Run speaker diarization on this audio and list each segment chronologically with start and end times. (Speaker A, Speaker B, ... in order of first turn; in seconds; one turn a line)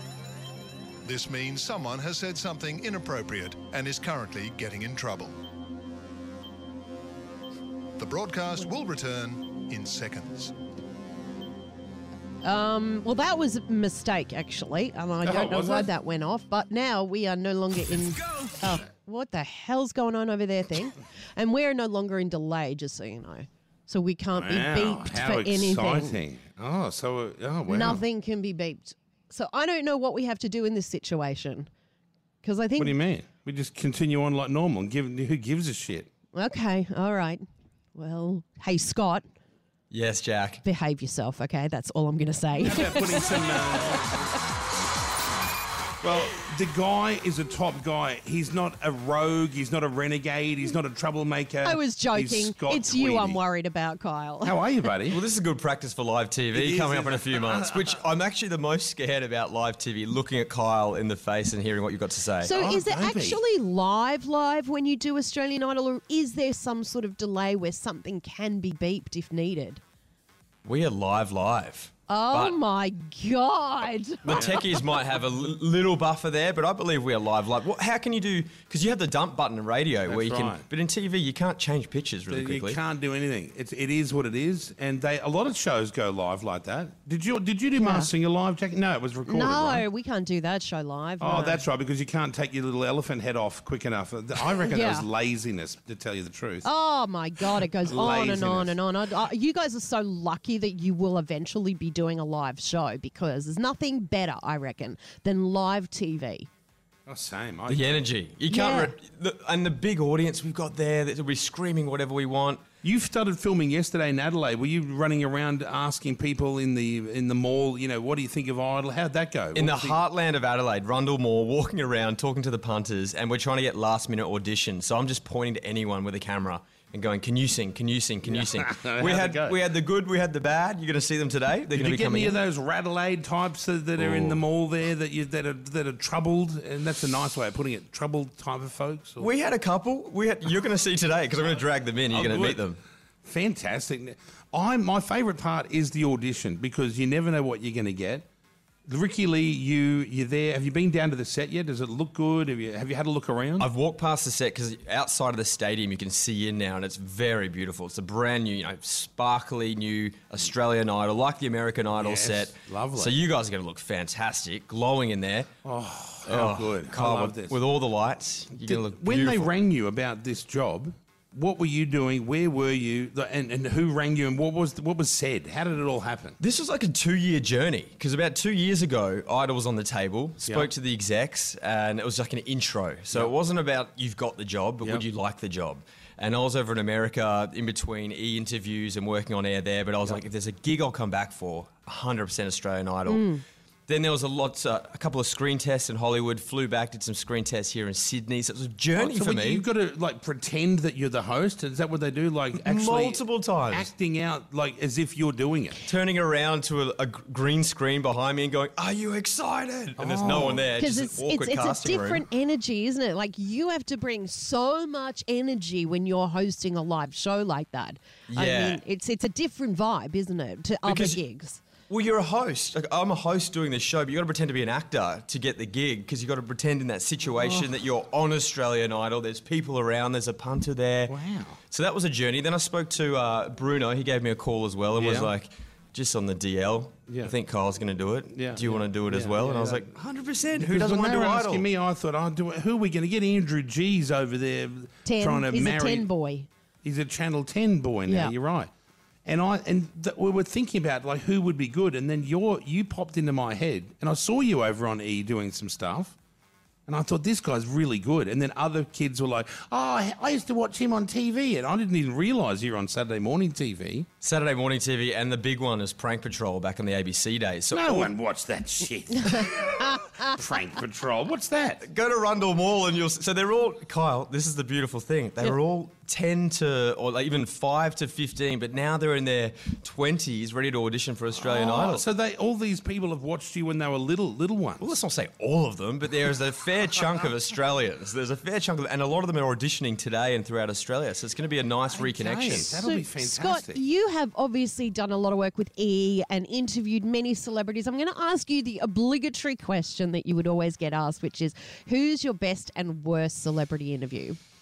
Speaker A: 1.0-5.3
Speaker A: 8.0-10.5
Speaker B: 12.4-26.2
Speaker C: 15.2-15.9
Speaker C: 24.3-28.0
Speaker B: 27.7-31.7
Speaker B: 32.4-33.0
Speaker C: 32.8-36.1
Speaker B: 36.3-37.4
Speaker B: 37.9-39.2
Speaker D: 39.9-40.6
Speaker B: 40.6-44.0
Speaker C: 42.6-44.3
Speaker C: 46.0-53.4
Speaker B: 51.6-54.6
Speaker C: 54.4-55.2
Speaker D: 55.1-62.5
Speaker C: 56.5-57.9
Speaker B: 62.4-69.8
Speaker C: 62.5-63.4
Speaker D: 70.6-72.6
Speaker B: 72.1-74.7
Speaker D: 74.2-82.8
Speaker C: 74.3-74.5
Speaker C: 80.0-80.6
Speaker C: 82.3-89.8
Speaker B: 87.8-88.1
Speaker B: 89.2-91.6
Speaker C: 91.2-96.7
Speaker B: 94.5-95.0
Speaker B: 96.6-106.5
Speaker C: 97.8-98.8
Speaker C: 107.1-108.0
Speaker D: 107.7-112.6
Speaker B: 108.5-109.0
Speaker C: 112.8-120.0
Speaker D: 119.5-132.4
Speaker C: 128.2-129.6
Speaker C: 131.7-139.3
Speaker D: 134.0-134.4
Speaker D: 139.2-142.8
Speaker C: 142.1-142.6
Speaker C: 143.2-148.2
Speaker C: 148.9-153.7
Speaker D: 153.6-165.5
Speaker C: 162.0-163.2
Speaker C: 165.6-167.6
Speaker D: 166.3-169.5
Speaker C: 168.5-176.4
Speaker D: 176.4-199.6
Speaker C: 180.4-180.7
Speaker B: 193.1-193.4
Speaker C: 198.9-205.8
Speaker D: 202.6-203.9
Speaker D: 205.8-212.2
Speaker C: 210.0-210.7
Speaker B: 210.8-221.6
Speaker D: 218.3-218.8
Speaker D: 220.8-221.2
Speaker D: 221.9-231.2
Speaker C: 227.4-227.7
Speaker C: 231.1-231.6
Speaker D: 231.7-241.7
Speaker C: 234.9-235.3
Speaker C: 237.1-237.3
Speaker C: 238.3-239.9
Speaker C: 240.6-246.1
Speaker B: 245.0-246.5
Speaker C: 246.8-248.7
Speaker B: 248.1-248.3
Speaker C: 249.2-256.1
Speaker C: 256.9-264.1
Speaker D: 264.2-268.1
Speaker C: 267.7-271.8
Speaker D: 271.8-282.1
Speaker C: 281.4-284.9
Speaker D: 284.8-292.8
Speaker C: 291.9-293.8
Speaker B: 292.8-304.4